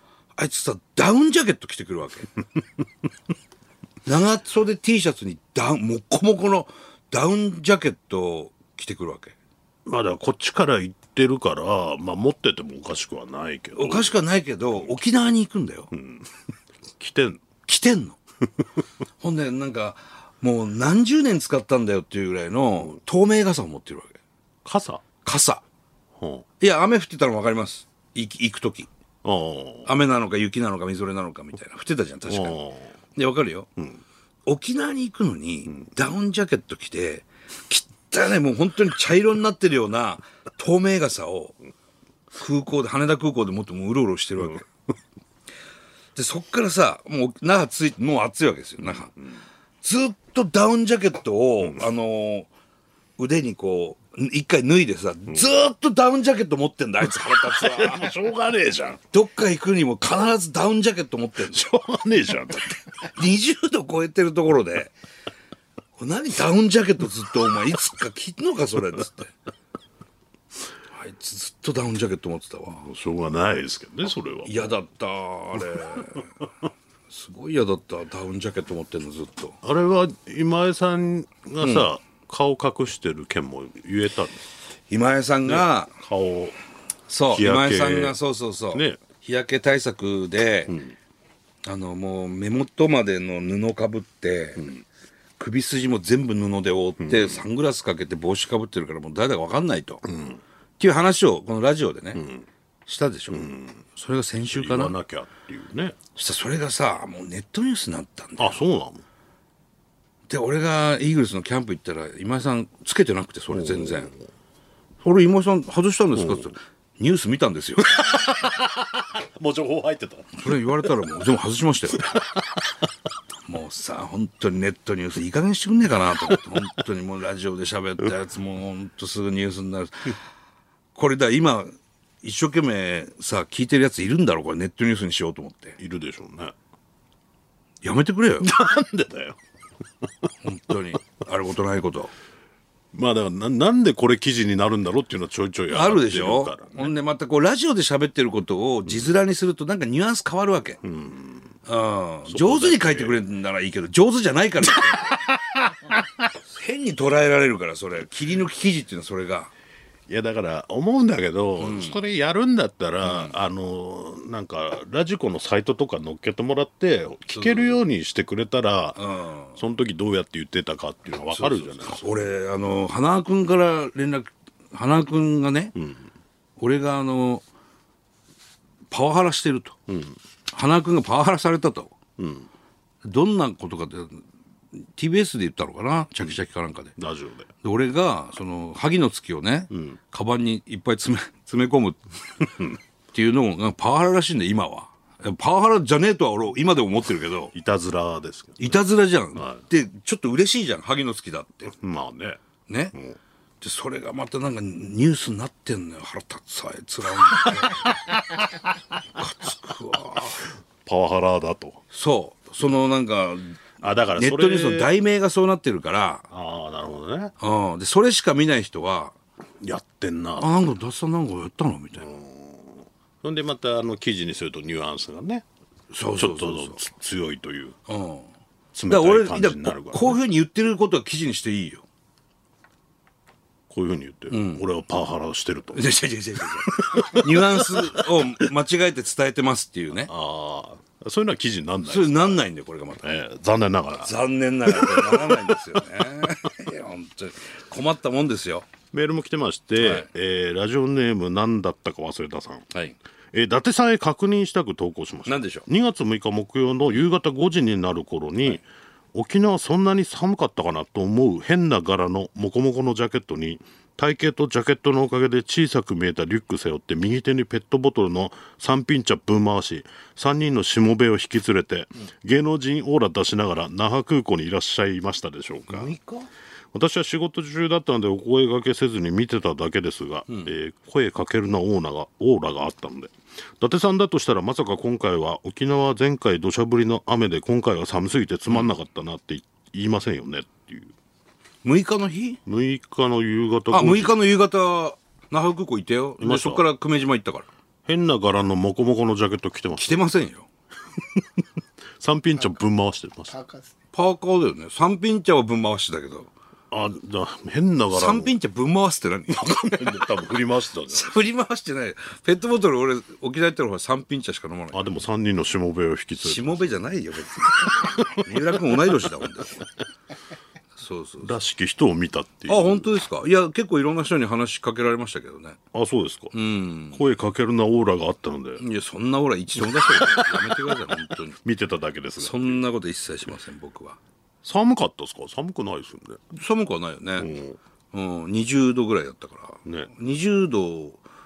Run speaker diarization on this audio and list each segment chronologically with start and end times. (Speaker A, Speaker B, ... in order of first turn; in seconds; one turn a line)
Speaker A: 0.4-2.3
Speaker A: 4.0-9.3
Speaker B: 9.8-14.2
Speaker A: 13.8-15.9
Speaker B: 15.9-16.3
Speaker B: 17.0-17.4
Speaker A: 17.6-18.2
Speaker A: 19.2-24.2
Speaker B: 24.6-25.0
Speaker A: 25.2-25.6
Speaker B: 26.2-26.4
Speaker A: 26.6-28.9
Speaker B: 29.2-29.9
Speaker A: 29.9-32.6
Speaker B: 32.2-32.9
Speaker A: 33.1-33.7
Speaker A: 34.5-41.5
Speaker A: 42.4-44.6
Speaker A: 46.1-49.1
Speaker A: 49.8-52.5
Speaker A: 53.2-58.1
Speaker B: 57.0-59.0
Speaker A: 59.1-61.7
Speaker B: 61.5-62.8
Speaker A: 63.0-64.9
Speaker A: 66.0-69.3
Speaker A: 70.9-72.8
Speaker B: 72.7-74.7
Speaker A: 74.4-76.3
Speaker A: 77.1-79.6
Speaker B: 79.6-84.5
Speaker A: 81.6-81.9
Speaker A: 84.9-85.9
Speaker B: 85.5-86.6
Speaker A: 87.1-90.8
Speaker B: 87.3-88.2
Speaker B: 88.7-89.0
Speaker B: 90.7-90.9
Speaker A: 91.6-94.7
Speaker A: 95.4-100.0
Speaker B: 97.0-97.4
Speaker B: 100.0-100.4
Speaker A: 100.8-102.2
Speaker B: 102.2-102.5
Speaker A: 102.8-104.9
Speaker B: 103.3-103.8
Speaker B: 104.5-106.0
Speaker A: 106.2-108.6
Speaker B: 108.4-109.0
Speaker A: 110.3-114.1
Speaker B: 113.5-114.2
Speaker A: 115.0-118.0
Speaker B: 116.1-116.5
Speaker B: 117.9-120.5
Speaker A: 120.3-122.2
Speaker A: 123.4-130.2
Speaker A: 130.9-135.8
Speaker B: 135.8-136.5
Speaker A: 137.8-138.5
Speaker B: 138.4-139.4
Speaker A: 140.4-142.1
Speaker B: 142.9-146.9
Speaker A: 145.7-150.8
Speaker B: 150.8-151.5
Speaker A: 151.7-155.2
Speaker B: 152.2-153.2
Speaker B: 154.8-156.2
Speaker A: 156.5-159.5
Speaker B: 160.1-169.0
Speaker A: 161.6-162.0
Speaker A: 163.0-163.3
Speaker A: 167.3-167.8
Speaker A: 168.9-169.6
Speaker B: 169.6-172.0
Speaker A: 171.3-175.7
Speaker B: 175.8-176.0
Speaker A: 176.6-177.4
Speaker A: 178.9-179.8
Speaker B: 179.9-180.2
Speaker A: 180.5-181.9
Speaker B: 182.2-182.5
Speaker A: 183.0-184.2
Speaker A: 184.8-186.9
Speaker B: 187.0-187.5
Speaker A: 187.6-192.0
Speaker B: 189.7-190.0
Speaker A: 193.1-197.5
Speaker B: 197.5-198.8
Speaker A: 198.6-201.7
Speaker B: 199.3-199.6
Speaker B: 201.7-202.4
Speaker A: 202.7-202.9
Speaker A: 203.6-208.0
Speaker A: 209.2-210.4
Speaker B: 210.8-211.8
Speaker A: 211.9-213.6
Speaker B: 213.8-214.9
Speaker A: 214.2-216.3
Speaker B: 216.3-217.3
Speaker A: 217.4-219.2
Speaker B: 219.6-220.5
Speaker A: 220.4-222.1
Speaker B: 222.0-225.4
Speaker A: 225.9-226.8
Speaker B: 226.2-227.8
Speaker A: 227.9-228.3
Speaker B: 228.7-230.2
Speaker A: 228.9-231.8
Speaker B: 233.7-235.9
Speaker A: 234.3-234.6
Speaker A: 235.7-240.1
Speaker B: 236.6-238.1
Speaker B: 240.1-242.4
Speaker A: 241.8-243.1
Speaker B: 243.0-245.6
Speaker A: 244.0-248.7
Speaker B: 248.9-252.7
Speaker A: 249.8-250.1
Speaker B: 253.3-275.9
Speaker A: 255.2-255.7
Speaker A: 275.7-276.3
Speaker B: 276.7-290.9
Speaker A: 291.6-292.4
Speaker B: 292.4-294.1
Speaker A: 293.7-297.5
Speaker B: 296.2-296.6
Speaker B: 297.9-299.9
Speaker A: 299.8-300.5
Speaker B: 302.0-303.6
Speaker A: 303.9-306.3
Speaker B: 306.7-308.3
Speaker A: 307.9-310.2
Speaker B: 309.3-311.1
Speaker A: 310.9-314.9
Speaker B: 314.7-316.7
Speaker A: 316.2-319.6
Speaker B: 317.5-318.3
Speaker A: 320.8-321.3
Speaker B: 321.2-322.9
Speaker A: 322.5-325.6
Speaker B: 325.7-326.3
Speaker A: 326.3-327.0
Speaker B: 326.9-328.6
Speaker A: 328.6-331.4
Speaker B: 329.7-330.8
Speaker B: 331.4-332.6
Speaker A: 332.2-334.0
Speaker B: 334.4-336.2
Speaker A: 336.3-337.3
Speaker B: 337.2-337.6
Speaker A: 337.9-341.0
Speaker B: 339.6-339.9